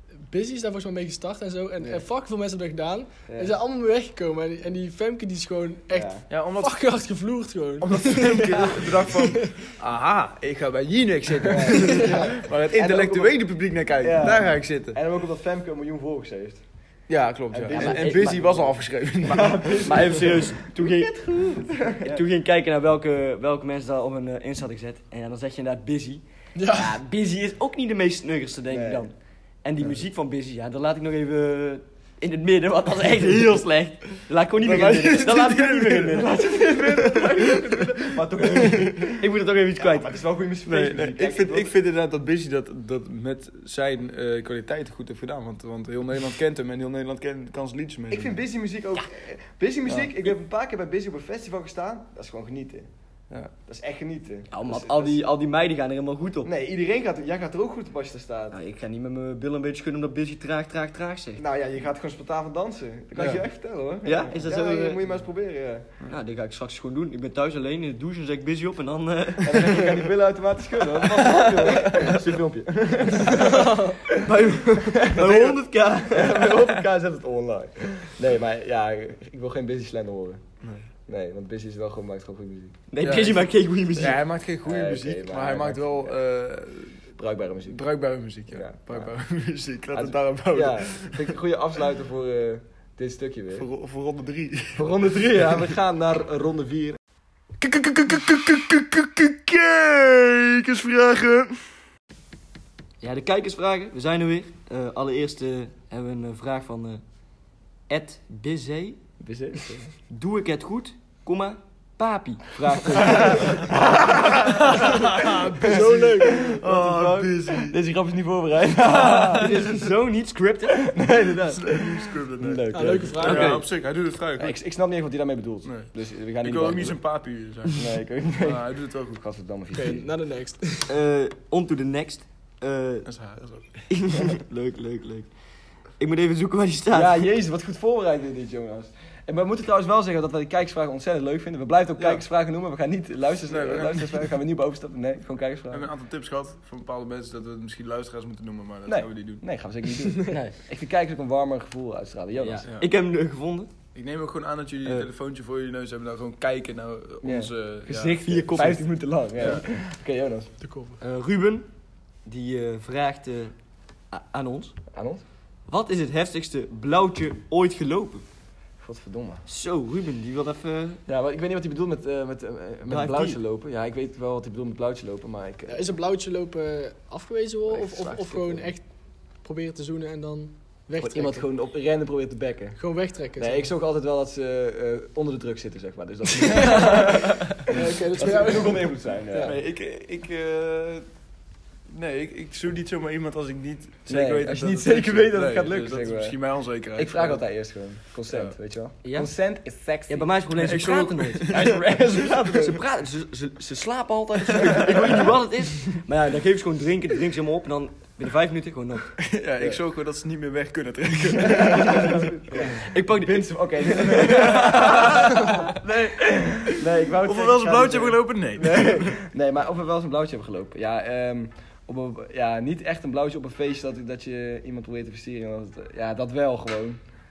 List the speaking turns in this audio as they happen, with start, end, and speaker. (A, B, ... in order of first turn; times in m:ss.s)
0:00.2-0:09.2 A
0:03.3-0:03.5 B
0:05.9-0:06.2 B
0:06.3-0:06.8 C
0:07.8-0:15.0 C
0:11.5-0:13.4 B
0:14.0-0:16.6 B
0:17.1-0:19.9 C
0:17.5-0:22.2 B
0:17.7-0:18.6 D
0:19.3-0:40.2 D
0:26.6-0:26.9 A
0:28.7-0:29.0 B
0:34.6-0:39.1 C
0:36.5-0:39.1 B
0:39.8-0:41.7 B
0:40.7-0:48.4 C
0:48.1-0:52.9 B
0:53.6-0:55.2 B
0:54.5-0:56.5 D
0:56.4-0:58.6 B
0:58.5-1:01.4 D
1:01.4-1:05.9 B
1:03.2-1:03.4 C
1:04.0-1:05.0 D
1:06.1-1:10.0 D
1:09.4-1:13.8 B
1:11.1-1:12.1 D
1:13.3-1:16.5 D
1:13.6-1:13.9 A
1:14.8-1:15.6 B
1:16.1-1:20.4 B
1:21.1-1:22.8 B
1:22.9-1:24.2 D
1:23.0-1:27.0 C
1:24.0-1:26.2 B
1:27.1-1:27.8 B
1:27.7-1:31.3 C
1:28.5-1:29.1 B
1:29.9-1:33.7 B
1:33.6-1:34.9 C
1:34.7-1:37.0 B
1:37.6-1:41.7 C
1:43.0-1:47.0 D
1:47.9-1:49.0 D
1:49.2-1:49.9 B
1:50.1-1:53.7 D
1:52.6-1:55.1 B
1:54.6-1:57.8 C
1:55.2-1:56.6 A
1:55.7-1:56.6 B
1:56.7-1:57.4 D
1:57.4-1:59.7 B
1:58.9-1:59.6 C
1:59.0-2:01.0 D
2:00.7-2:03.7 B
2:01.5-2:04.6 C
2:02.7-2:03.6 A
2:03.3-2:03.6 D
2:04.4-2:07.0 B
2:05.6-2:07.9 C
2:07.8-2:10.0 B
2:08.4-2:09.2 C
2:09.7-2:10.9 A
2:10.9-2:13.1 D
2:13.0-2:13.9 C
2:13.9-2:15.3 D
2:16.0-2:17.2 D
2:16.9-2:25.9 B
2:23.5-2:24.3 C
2:25.7-2:29.4 C
2:28.9-2:32.6 B
2:30.3-2:30.6 D
2:32.4-2:33.7 D
2:33.9-2:38.2 C
2:37.2-2:40.5 B
2:37.9-2:38.8 D
2:40.6-2:41.0 A
2:41.0-2:41.7 D
2:42.3-2:43.5 D
2:44.1-2:44.8 D
2:44.9-2:45.2 B
2:45.7-2:48.2 D
2:48.8-2:49.4 B
2:49.5-2:51.0 D
2:51.1-2:55.8 B
2:52.9-2:53.4 D
2:55.7-3:01.5 A
2:57.7-2:58.7 B
3:01.0-3:09.6 B
3:02.8-3:03.7 A
3:06.6-3:07.1 A
3:07.7-3:09.5 A
3:09.4-3:11.0 C
3:11.9-3:17.4 C
3:14.1-3:20.3 B
3:18.3-3:18.5 C
3:19.0-3:19.3 D
3:20.1-3:29.1 D
3:20.6-3:22.3 C
3:21.5-3:22.8 B
3:24.6-3:25.2 C
3:29.2-3:32.4 C
3:31.4-3:47.0 B
3:32.7-3:35.2 D
3:34.2-3:39.2 C